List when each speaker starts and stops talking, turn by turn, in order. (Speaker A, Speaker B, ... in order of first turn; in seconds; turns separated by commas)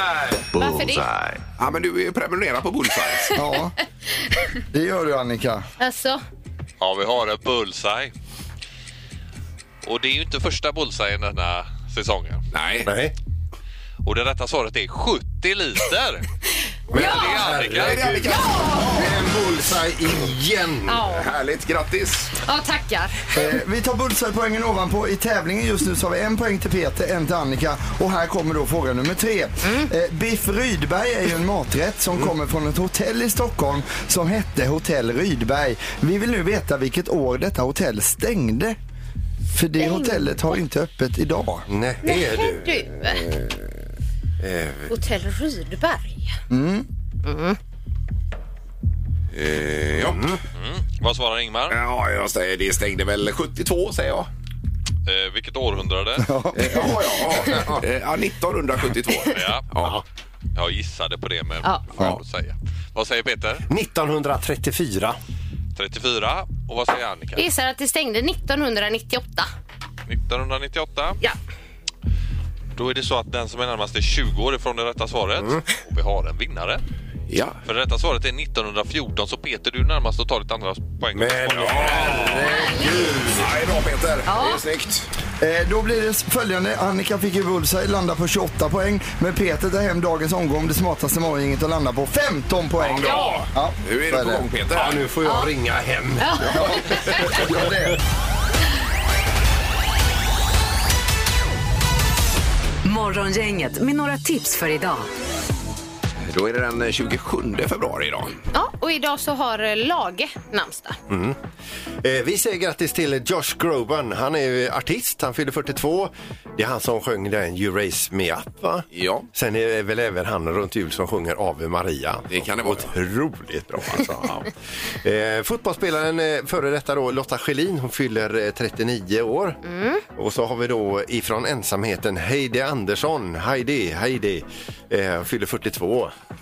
Speaker A: 0.5-1.4, Speaker B: 0.5-1.1, Speaker C: 1.6-3.4, Speaker D: 3.3-3.7, Speaker D: 4.7-5.6, Speaker B: 5.8-6.2, Speaker E: 6.8-8.1, Speaker E: 9.8-12.4, Speaker C: 12.5-12.9, Speaker A: 12.8-13.1, Speaker E: 14.0-16.2, Speaker A: 16.9-21.0, Speaker B: 16.9-17.4, Speaker E: 16.9-18.1, Speaker C: 17.7-19.2, Speaker B: 18.3-18.9, Speaker B: 20.9-21.3, Speaker C: 21.1-22.3, Speaker B: 22.4-23.3, Speaker D: 23.3-38.8, Speaker B: 29.6-29.9, Speaker D: 39.5-41.6, Speaker B: 39.8-40.3, Speaker A: 41.7-42.8, Speaker B: 42.0-43.3, Speaker A: 44.4-44.9, Speaker B: 44.9-46.3, Speaker D: 46.5-46.9, Speaker B: 47.2-47.6, Speaker C: 49.3-50.3, Speaker A: 50.0-50.4, Speaker E: 50.5-51.8, Speaker C: 51.7-54.3, Speaker E: 55.0-56.3, Speaker D: 56.2-57.0, Speaker C: 56.5-60.0, Speaker A: 57.4-57.8, Speaker E: 59.3-59.7, Speaker E: 60.5-63.6, Speaker A: 63.7-65.2, Speaker E: 65.8-67.5, Speaker B: 67.3-69.5, Speaker E: 70.1-71.2, Speaker E: 72.8-76.8, Speaker C: 77.3-77.6, Speaker E: 77.6-82.5, Speaker A: 81.1-83.5, Speaker C: 81.6-82.5, Speaker B: 82.4-82.9, Speaker C: 83.2-85.1, Speaker B: 84.3-84.6, Speaker D: 85.4-94.5, Speaker C: 92.8-95.0, Speaker B: 93.0-93.4, Speaker A: 94.7-97.5, Speaker B: 95.2-95.5, Speaker B: 96.2-97.4, Speaker C: 96.4-96.8, Speaker D: 96.5-98.0, Speaker F: 102.8-105.1, Speaker C: 106.3-108.4, Speaker B: 108.5-111.0, Speaker A: 111.1-111.4, Speaker A: 112.0-129.6, Speaker C: 118.9-119.3, Speaker C: 122.3-122.9, Speaker C: 123.7-124.4, Speaker B: 129.6-130.0, Speaker A: 130.1-136.1